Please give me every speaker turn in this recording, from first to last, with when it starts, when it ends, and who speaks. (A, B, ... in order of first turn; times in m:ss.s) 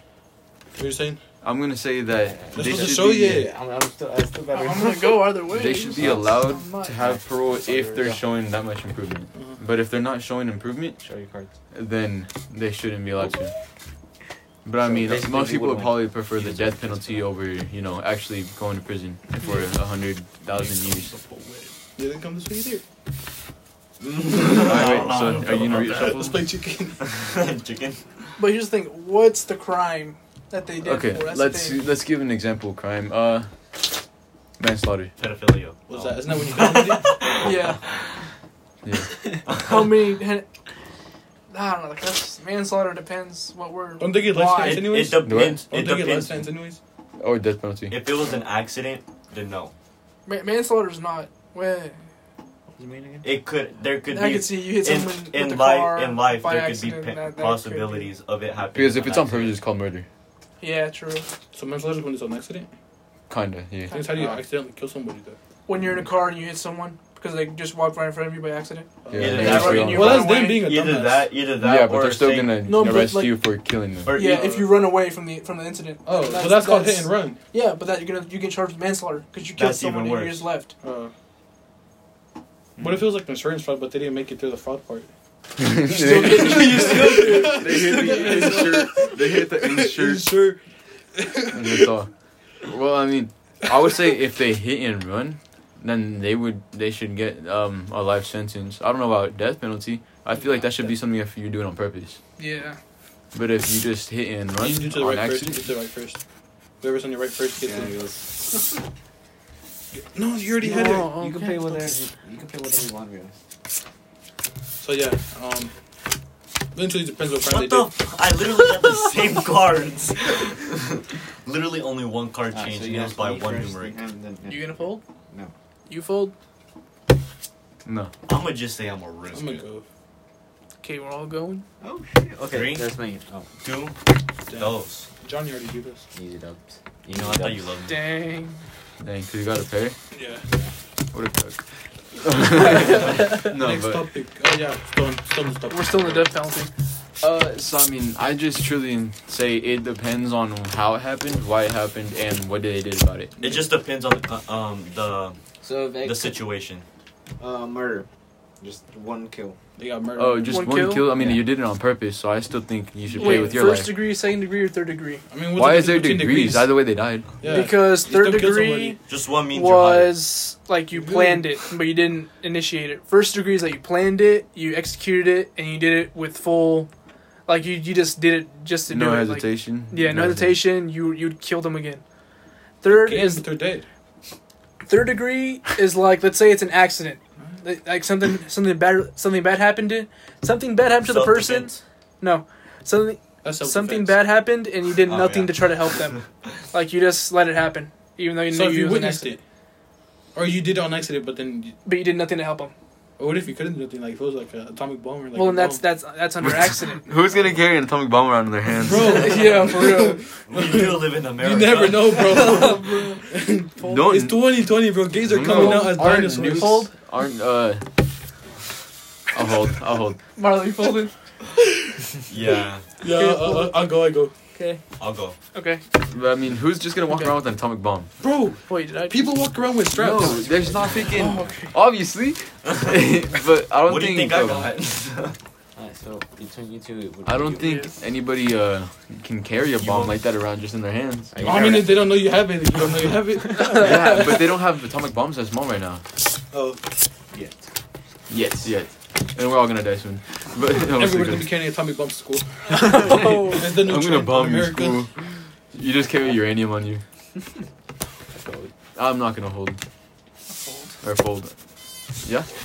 0:00.8-0:01.2 A
0:01.4-0:03.4 B
0:02.2-0:05.2 C
0:02.5-0:03.5 A
0:04.5-0:07.0 D
0:05.5-0:11.0 B
0:06.0-0:06.3 C
0:07.0-0:08.2 C
0:09.3-0:09.6 A
0:11.0-0:11.5 C
0:11.7-0:13.5 B
0:14.6-0:21.2 B
0:14.8-0:17.2 C
0:16.4-0:16.7 E
0:21.2-0:21.7 D
0:22.0-0:22.8 A
0:24.0-0:26.2 E
0:24.6-0:26.4 B
0:24.6-0:27.0 A
0:27.0-0:28.0 E
0:28.4-0:31.8 D
0:30.8-0:34.0 B
0:34.6-0:35.1 B
0:35.2-0:38.0 E
0:35.9-0:37.2 A
0:37.4-0:37.8 D
0:38.8-0:39.1 B
0:39.5-0:40.0 E
0:39.5-0:40.4 D
0:41.5-0:44.9 D
0:44.0-0:46.8 A
0:44.6-0:46.4 E
0:45.2-0:45.6 B
0:47.2-0:48.0 B
0:47.9-0:49.7 E
0:50.2-0:52.0 D
0:52.7-0:53.3 C
0:53.2-0:59.5 E
0:54.1-0:58.1 D
0:58.7-1:00.0 B
1:00.6-1:01.3 D
1:01.5-1:02.7 A
1:03.3-1:04.0 B
1:03.8-1:04.2 D
1:03.9-1:05.4 A
1:05.7-1:10.7 D
1:09.0-1:11.3 A
1:09.1-1:10.3 B
1:09.2-1:12.5 E
1:11.6-1:14.2 B
1:12.6-1:13.4 D
1:14.0-1:14.8 E
1:14.1-1:20.7 D
1:16.0-1:17.4 A
1:19.6-1:20.4 E
1:20.8-1:21.1 A
1:22.8-1:23.0 E
1:22.8-1:25.1 A
1:25.6-1:30.4 B
1:25.9-1:28.9 D
1:25.9-1:30.6 A
1:31.1-1:31.9 A
1:31.5-1:32.1 B
1:32.6-1:42.2 B
1:40.6-1:40.9 C
1:42.4-1:42.8 D
1:43.3-1:45.6 B
1:44.6-1:46.2 A
1:46.8-1:47.9 A
1:47.6-1:48.3 C
1:50.1-1:51.1 A
1:50.6-1:51.9 D
1:50.6-1:53.3 C
1:54.8-1:55.7 A
1:56.7-1:57.9 A
1:57.4-2:04.0 E
2:02.5-2:05.5 C
2:04.5-2:05.0 D
2:05.9-2:06.3 D
2:07.8-2:08.1 B
2:08.3-2:09.6 E
2:09.3-2:09.8 A
2:10.8-2:11.6 D
2:11.8-2:13.5 C
2:12.5-2:12.9 E
2:13.6-2:14.0 E
2:14.5-2:15.1 E
2:15.2-2:16.0 A
2:16.1-2:17.7 C
2:17.1-2:18.2 E
2:17.9-2:18.6 D
2:19.0-2:20.0 B
2:20.1-2:20.4 A
2:21.1-2:21.6 B
2:22.1-2:24.0 B
2:22.6-2:23.4 D
2:22.8-2:26.3 A
2:25.7-2:26.7 D
2:27.2-2:33.3 B
2:33.4-2:35.4 E
2:35.6-2:36.4 C
2:36.0-2:36.8 E
2:37.4-2:38.0 C
2:38.6-2:39.6 C
2:39.8-2:40.6 A
2:40.2-2:43.9 B
2:40.5-2:41.1 D
2:41.2-2:41.5 C
2:43.1-2:43.5 A
2:43.1-2:45.2 D
2:45.3-2:46.8 A
2:45.5-2:47.3 B
2:47.4-2:49.0 A
2:47.4-2:49.0 D
2:49.1-2:50.2 E
2:49.5-2:56.9 D
2:50.9-2:51.6 A
2:57.5-3:02.0 D
2:58.9-3:00.6 B
3:02.8-3:03.4 D
3:02.9-3:03.8 A
3:04.8-3:19.3 D
3:11.0-3:11.8 E
3:13.4-3:14.2 A
3:15.0-3:16.2 E
3:18.5-3:19.4 A
3:20.3-3:21.8 A
3:21.8-3:22.7 D
3:23.2-3:25.8 A
3:25.3-3:27.3 D
3:26.4-3:29.5 B
3:28.7-3:36.8 A
3:28.9-3:30.2 D
3:30.5-3:32.6 E
3:32.1-3:34.2 D
3:33.8-3:37.8 B
3:35.4-3:36.9 D
3:39.3-3:40.2 B
3:40.4-3:41.1 D
3:42.3-3:42.8 E
3:43.0-3:44.3 A
3:43.0-3:44.0 D
3:44.5-3:44.8 D
3:45.0-3:45.4 E
3:45.5-3:45.8 D
3:46.0-3:48.1 B
3:48.2-3:50.5 A
3:48.6-3:49.3 D
3:49.9-3:54.7 B
3:50.5-3:51.6 C
3:50.9-3:51.8 D
3:52.6-3:53.0 E
3:53.8-3:55.4 E
3:55.8-3:57.6 C
3:57.2-4:01.6 B
3:57.6-3:58.0 D
3:59.8-4:00.1 E
4:01.3-4:02.1 C
4:01.4-4:04.2 A
4:03.5-4:04.3 D
4:03.7-4:06.0 B
4:06.5-4:06.8 A
4:07.3-4:07.6 C
4:08.3-4:11.6 B
4:10.8-4:13.0 A
4:12.7-4:13.7 D
4:12.8-4:17.0 B
4:13.5-4:15.0 A
4:18.3-4:18.7 C
4:18.9-4:19.8 B
4:20.5-4:21.0 D
4:21.0-4:21.5 B